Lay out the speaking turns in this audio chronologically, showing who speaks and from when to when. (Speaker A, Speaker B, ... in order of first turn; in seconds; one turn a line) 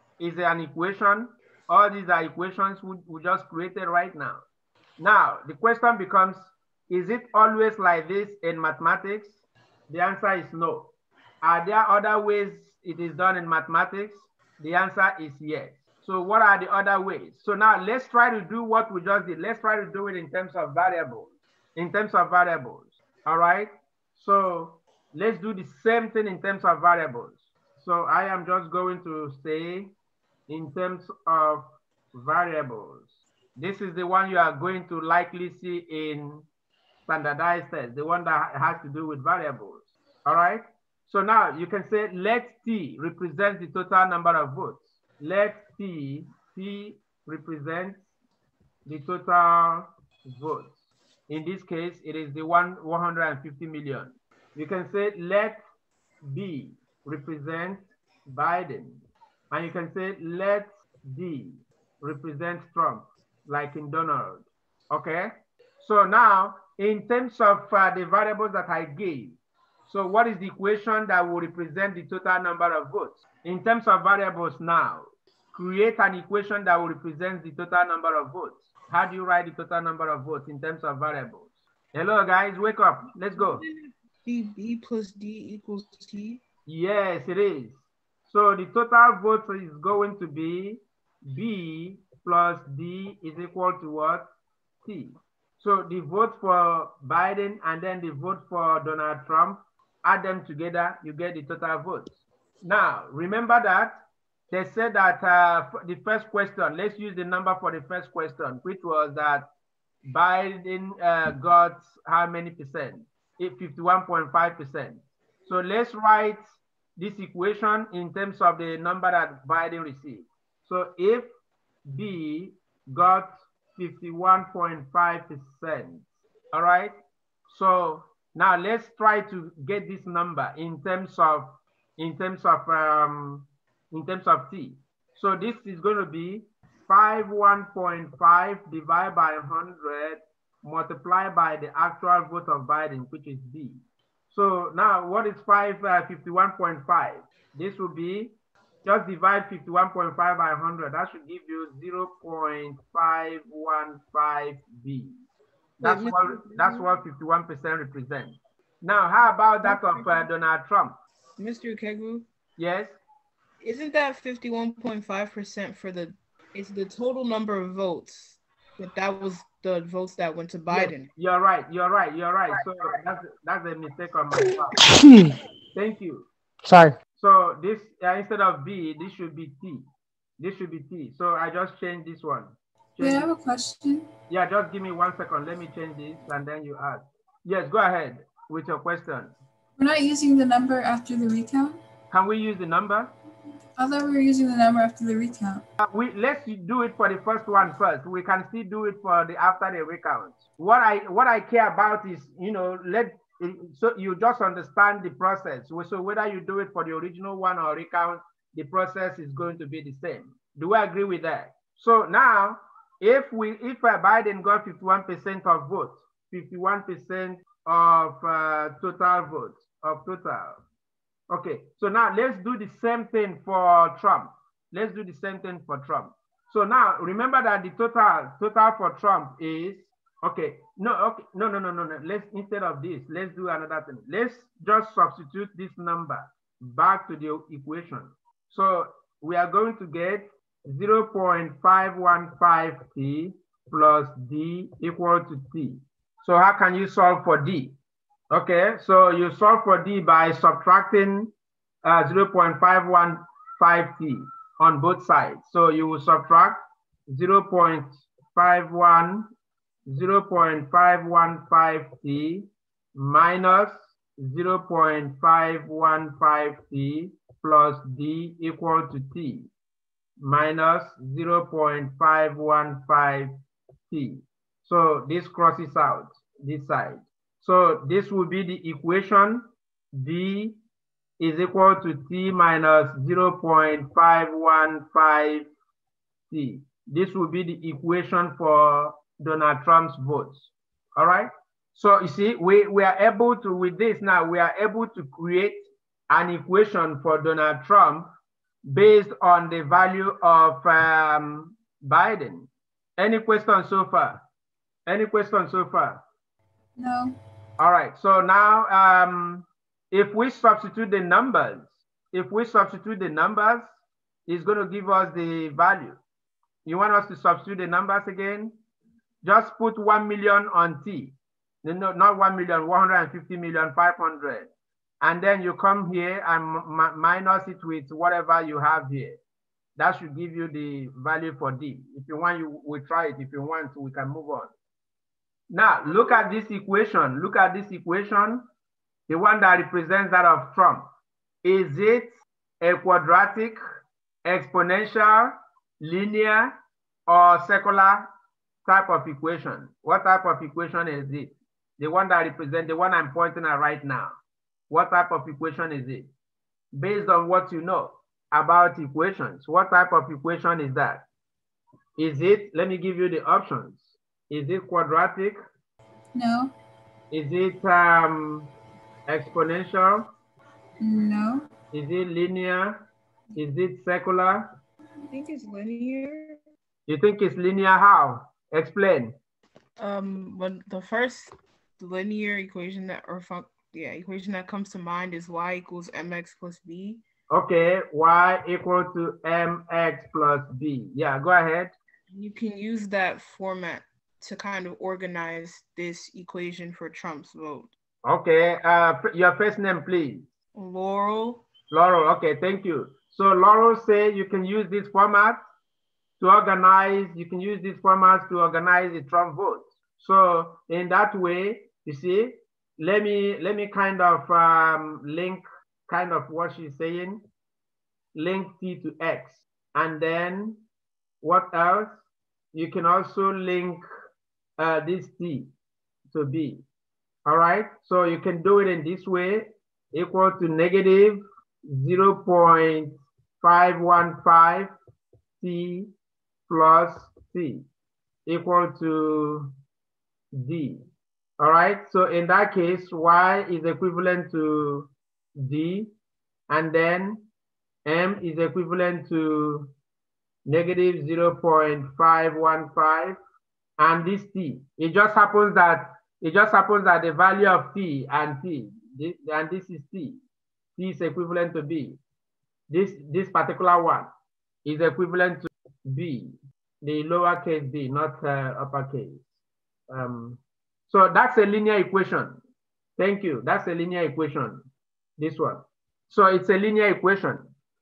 Speaker A: 0.2-4.4
Speaker A: 5.0-10.9
Speaker A: 11.4-29.9
Speaker A: 30.5-36.5
Speaker A: 37.1-48.1
Speaker A: 48.9-55.6
Speaker A: 56.2-83.6
Speaker B: 83.3-86.4
Speaker A: 86.7-94.2
Speaker A: 94.8-104.0
Speaker A: 104.5-109.5
Speaker A: 110.0-116.4
Speaker A: 117.0-121.3
Speaker A: 121.9-127.0
Speaker A: 127.5-155.2
Speaker B: 155.8-156.9
Speaker A: 155.8-161.0
Speaker B: 159.6-160.3
Speaker B: 161.4-162.3
Speaker A: 162.6-163.0
Speaker B: 163.6-171.1
Speaker A: 170.7-174.8
Speaker A: 175.8-176.3
Speaker A: 177.1-179.8
Speaker A: 180.4-183.3
Speaker C: 183.0-184.1
Speaker A: 184.3-189.3
Speaker C: 189.8-191.8
Speaker A: 192.1-193.1
Speaker C: 193.8-195.6
Speaker A: 195.8-220.6
Speaker A: 221.3-247.8
Speaker A: 248.3-251.3
Speaker A: 251.8-259.3
Speaker A: 259.9-269.5
Speaker A: 270.2-273.3
Speaker A: 273.9-280.6
Speaker A: 281.2-285.5
Speaker A: 286.3-298.1
Speaker A: 298.6-304.2
Speaker A: 304.9-306.0
Speaker C: 306.8-307.1
Speaker A: 307.6-313.7
Speaker A: 314.3-316.0
Speaker A: 316.6-318.5
Speaker A: 319.2-324.5
Speaker A: 325.0-329.2
Speaker A: 329.8-334.5
Speaker A: 335.5-338.4
Speaker A: 339.1-340.9
Speaker A: 341.4-343.6
Speaker A: 344.2-346.5
Speaker A: 347.1-348.1
Speaker A: 348.6-354.1
Speaker A: 354.7-356.1
Speaker A: 356.7-361.1
Speaker A: 362.0-365.4
Speaker C: 366.1-366.5
Speaker A: 367.1-368.5
Speaker A: 369.1-370.1
Speaker C: 370.8-371.5
Speaker A: 371.7-372.8
Speaker A: 373.4-374.5
Speaker B: 375.1-376.4
Speaker A: 376.9-379.1
Speaker B: 379.8-387.0
Speaker A: 387.3-391.7
Speaker B: 392.1-397.7
Speaker A: 398.0-400.3
Speaker B: 400.6-401.4
Speaker A: 401.7-405.4
Speaker A: 406.2-417.2
Speaker A: 418.1-420.6
Speaker A: 421.2-422.0
Speaker A: 422.5-423.8
Speaker A: 424.6-425.5
Speaker A: 426.1-426.6
Speaker A: 427.2-434.7
Speaker A: 435.4-435.9
Speaker A: 436.5-437.7
Speaker A: 438.3-439.5
Speaker A: 440.3-440.8
Speaker A: 441.4-445.9
Speaker A: 446.5-447.2
Speaker A: 447.9-449.7
Speaker A: 450.5-453.2
Speaker A: 453.8-460.2
Speaker A: 460.8-462.0
Speaker A: 462.7-464.1
Speaker A: 464.6-469.3
Speaker A: 469.9-472.4
Speaker A: 473.0-474.6
Speaker A: 475.2-477.5